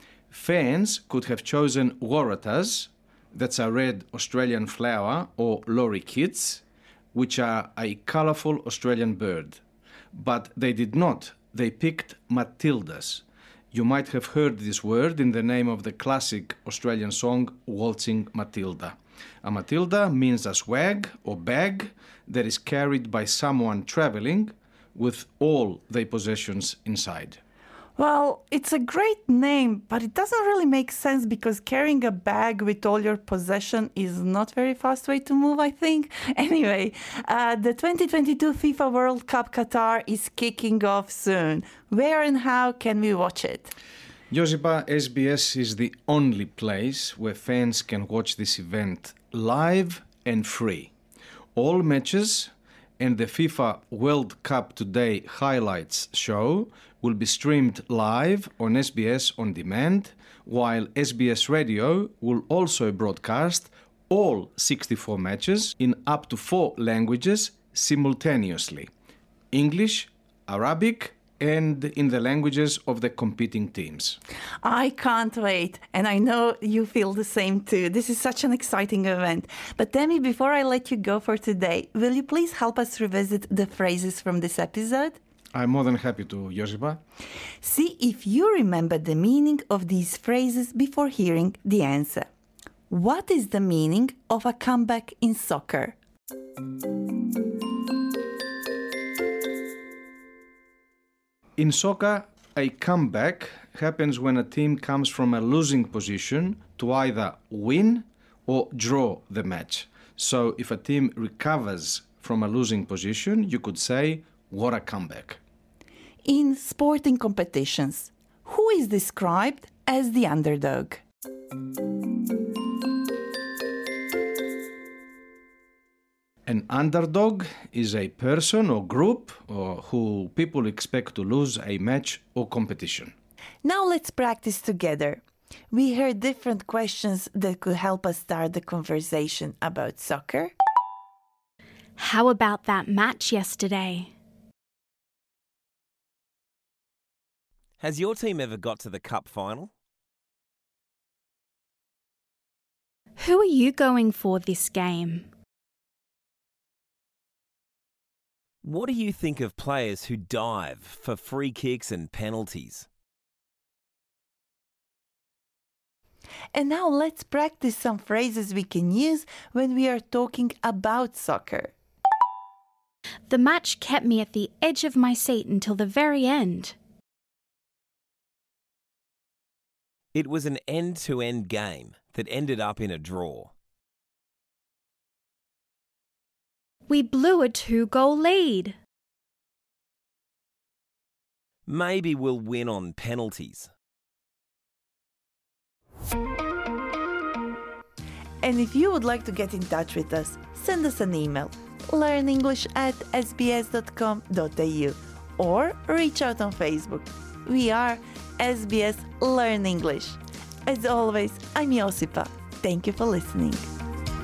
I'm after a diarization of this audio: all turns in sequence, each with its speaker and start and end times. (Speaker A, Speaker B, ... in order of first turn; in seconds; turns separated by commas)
Speaker A: 0.3-9.6, Speaker A: 10.1-27.4, Speaker B: 28.0-43.7, Speaker A: 44.3-50.9, Speaker A: 51.6-68.9, Speaker A: 69.5-74.2, Speaker B: 74.6-85.2, Speaker A: 85.5-87.0, Speaker B: 87.6-92.3, Speaker B: 92.9-96.0, Speaker A: 101.6-115.4, Speaker B: 116.2-121.0, Speaker A: 126.5-133.1, Speaker B: 133.6-140.5, Speaker C: 142.0-144.1, Speaker D: 147.8-149.7, Speaker C: 153.2-155.3, Speaker D: 158.6-162.9, Speaker B: 166.5-171.7, Speaker C: 173.3-176.8, Speaker D: 180.1-183.5, Speaker C: 186.9-188.8, Speaker D: 191.7-193.7, Speaker B: 198.4-213.7